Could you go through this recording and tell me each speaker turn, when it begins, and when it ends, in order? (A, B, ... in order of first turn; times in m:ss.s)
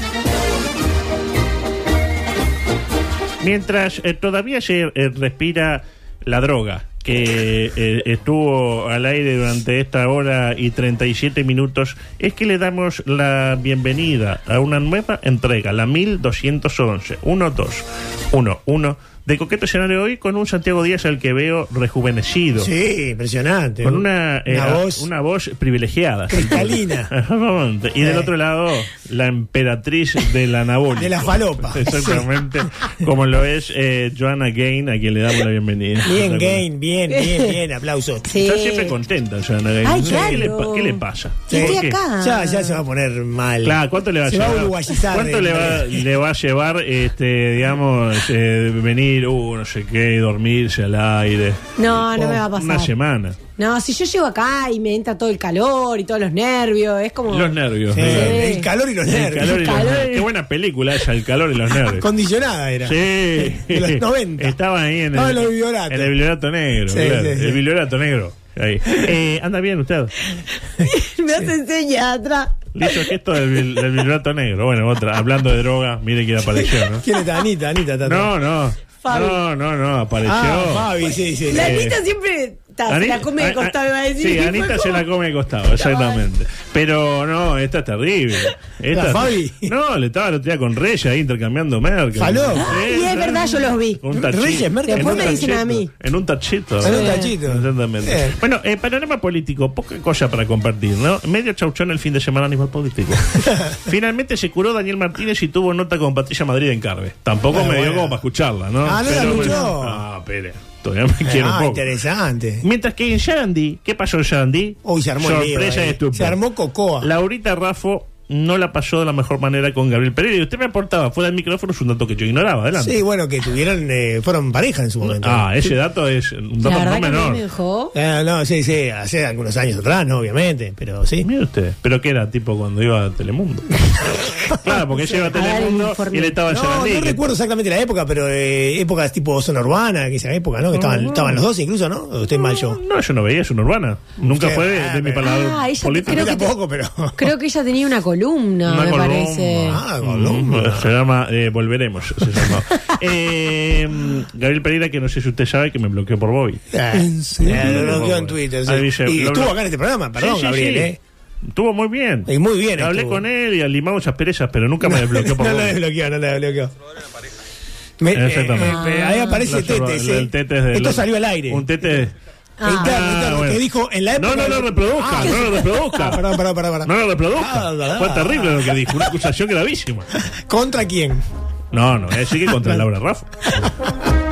0:03.4-0:22.7 A
0:22.6-0:25.1 B
0:23.8-0:36.6 A
0:26.3-0:27.1 B
0:28.0-0:28.3 B
0:31.0-0:32.3 B
0:36.0-0:38.3 B
0:37.2-0:37.5 C
0:38.3-0:38.9 C
0:38.4-0:42.0 A
0:39.8-0:42.8 C
0:40.1-0:40.4 B
0:41.5-0:46.0 B
0:43.6-0:53.4 A
0:51.8-0:52.9 C
0:52.1-0:52.4 B
0:53.6-0:58.7 C
0:57.3-0:58.4 A
0:57.9-0:59.9 B
0:59.1-1:02.0 A
0:59.4-1:00.3 C
1:01.9-1:04.6 B
1:02.8-1:10.2 A
1:05.1-1:06.1 B
1:06.9-1:07.6 B
1:10.8-1:13.1 C
1:12.8-1:17.0 A
1:16.9-1:18.3 B
1:18.0-1:20.9 A
1:19.0-1:19.4 C
1:20.2-1:21.8 B
1:21.5-1:25.0 C
1:21.5-1:22.0 A
1:22.9-1:51.9 A
1:25.7-1:26.2 C
1:28.9-1:29.7 B
1:32.2-1:32.8 B
1:32.6-1:34.0 C
1:34.1-1:35.8 B
1:34.8-1:35.9 C
1:36.8-1:38.4 B
1:36.8-1:37.3 C
1:47.5-1:48.2 B
1:48.8-1:50.0 B
1:51.2-1:52.6 B
1:52.6-1:56.4 A
1:54.8-1:57.1 B
1:57.0-2:03.0 A
2:02.8-2:05.5 B
2:05.0-2:07.4 A
2:06.6-2:08.0 C
2:07.9-2:11.3 B
2:11.2-2:17.2 A
2:14.5-2:15.3 B
2:15.3-2:16.4 C
2:16.5-2:22.8 B
2:20.7-2:21.4 A
2:22.5-2:26.4 A
2:24.2-2:25.3 B
2:25.2-2:26.5 C
2:26.0-2:27.3 B
2:27.2-2:29.8 C
2:28.6-2:36.6 A
2:29.6-2:30.9 B
2:36.7-2:41.0 B
2:36.9-2:37.5 C
2:37.4-2:39.6 A
2:40.2-2:41.0 A
2:41.5-2:45.8 A
2:42.3-2:43.2 B
2:44.8-2:46.7 B
2:48.0-2:51.7 B
2:48.1-2:52.1 A
2:48.6-2:49.4 C
2:52.6-2:52.9 C
2:52.7-2:53.6 A
2:52.7-2:59.2 B
2:54.2-2:56.2 A
2:55.2-2:56.2 C
2:56.8-3:00.1 A
3:00.2-3:01.2 B
3:01.7-3:03.3 A
3:02.4-3:02.8 B
3:03.6-3:04.1 B